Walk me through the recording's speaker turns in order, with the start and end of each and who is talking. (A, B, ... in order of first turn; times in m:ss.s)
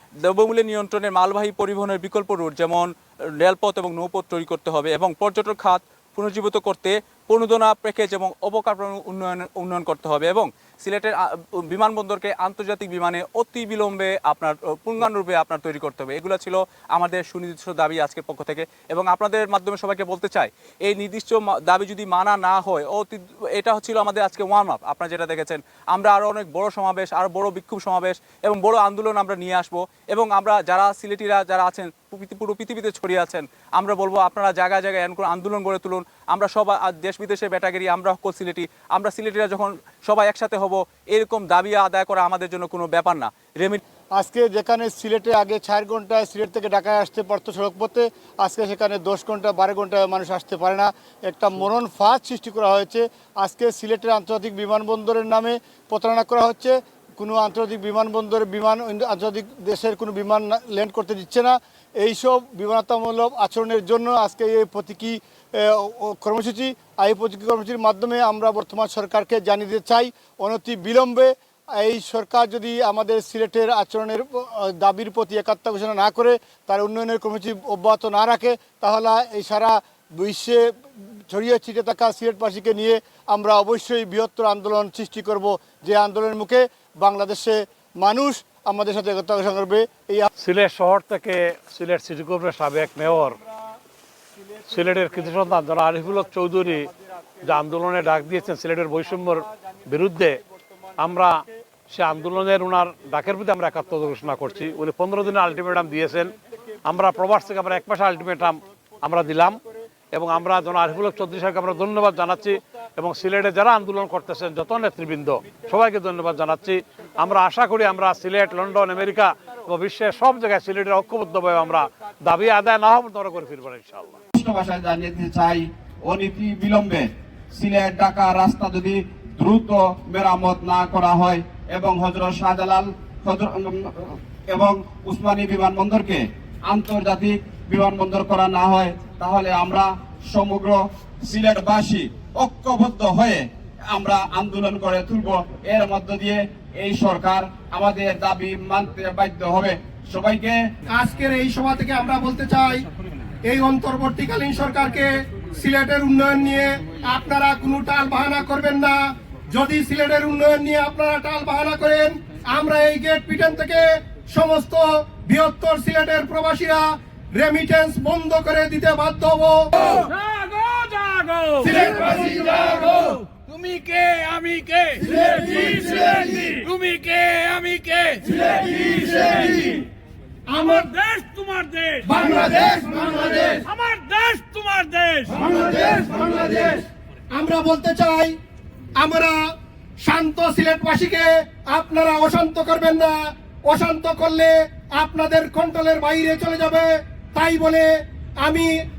0:00.2-0:43.8 A
0:44.2-1:30.3 B
1:30.4-1:33.4 C
1:34.7-1:36.9 C
1:37.4-1:40.4 C
1:41.0-1:46.3 C
1:46.9-1:49.6 C
1:50.1-2:04.2 C
2:04.4-2:30.6 D
2:30.9-2:32.8 E
2:33.5-2:38.9 E
2:39.6-2:49.6 E
2:49.8-2:59.8 F
2:51.6-2:52.3 E
3:00.5-3:00.8 E
3:00.5-3:06.7 F
3:02.1-3:02.9 E
3:05.6-3:06.8 E
3:07.3-3:08.3 E
3:09.0-3:09.4 E
3:10.1-3:13.1 E
3:13.7-3:17.9 E
3:18.4-3:18.7 E